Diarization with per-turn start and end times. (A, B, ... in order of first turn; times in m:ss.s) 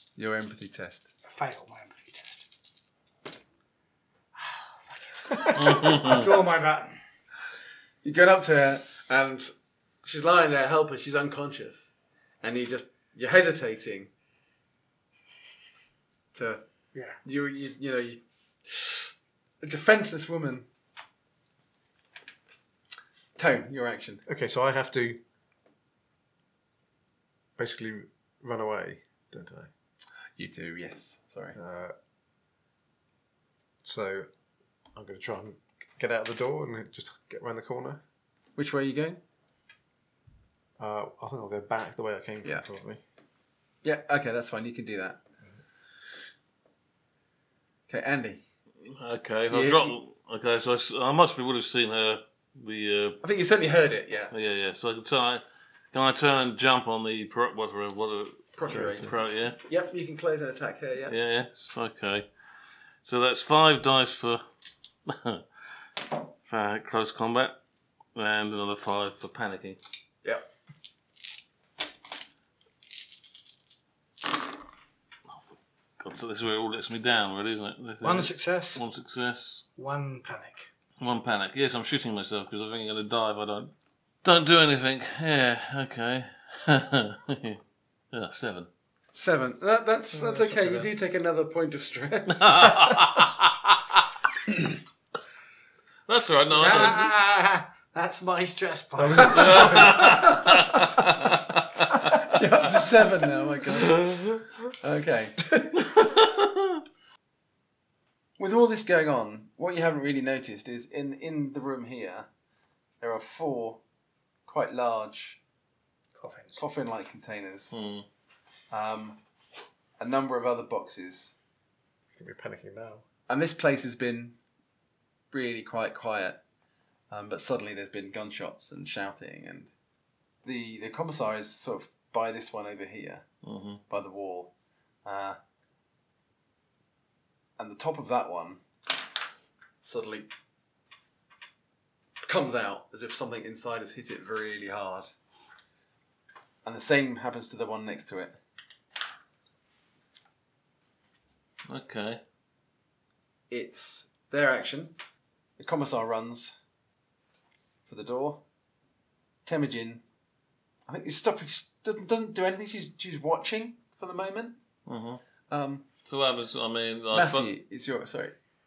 0:00.2-0:01.1 A
0:01.2-0:02.5 B
0:04.4-0:07.0 B
0:05.5-0:06.4 C
0:08.0-0:14.1 A
0:16.3-0:16.6 A
0:16.9-0:17.2 B
0:17.2-0:20.7 A
0:23.4-0:24.2 A
0:24.3-0:25.2 D
0:27.6-0:29.7 D
0:30.4-0:31.6 A
0:31.6-0:32.0 D
0:33.8-0:34.3 D
0:35.0-0:38.0 D
0:38.6-0:39.2 A
0:40.8-0:43.0 D
0:43.8-0:45.2 A
0:47.9-0:48.4 A
0:48.8-0:53.2 C
0:49.5-0:50.0 A
0:53.2-0:54.3 A
0:54.3-0:59.6 C
0:58.6-1:01.2 A
0:58.7-0:59.1 D
1:01.1-1:02.3 C
1:03.0-1:04.4 C
1:05.1-1:05.4 C
1:06.4-1:07.6 C
1:08.2-1:09.8 C
1:15.3-1:19.6 C
1:18.0-1:18.8 B
1:19.8-1:20.7 B
1:21.0-1:23.7 C
1:24.2-1:27.6 C
1:28.1-1:28.7 C
1:29.1-1:33.0 A
1:30.1-1:30.9 D
1:32.4-1:33.8 C
1:36.1-1:37.1 C
1:36.5-1:39.7 B
1:39.0-1:40.8 D
1:39.2-1:41.4 A
1:39.3-1:42.3 C
1:42.0-1:45.7 A
1:43.7-1:44.4 C
1:45.9-1:46.8 C
1:48.4-1:52.3 A
1:53.0-1:53.8 A
1:54.5-1:55.4 A
1:56.2-1:56.6 B
1:56.6-1:57.7 A
1:57.7-1:58.1 C
1:58.7-1:59.2 A
2:00.0-2:01.4 A
2:02.2-2:03.0 D
2:03.3-2:04.4 A
2:05.3-2:06.4 A
2:07.1-2:09.7 A
2:10.4-2:13.2 A
2:13.4-2:13.8 C
2:13.9-2:14.5 A
2:15.0-2:15.4 A
2:17.6-2:18.6 A
2:19.8-2:20.3 A
2:22.2-2:25.1 A
2:26.6-2:28.4 A
2:31.7-2:32.2 C
2:33.5-2:35.0 A
2:35.6-2:36.6 A
2:37.9-2:38.4 A
2:39.4-2:40.0 A
2:40.9-2:44.6 A
2:44.9-2:45.2 C
2:45.5-2:45.9 A
2:46.0-2:47.5 C
2:47.1-2:48.4 A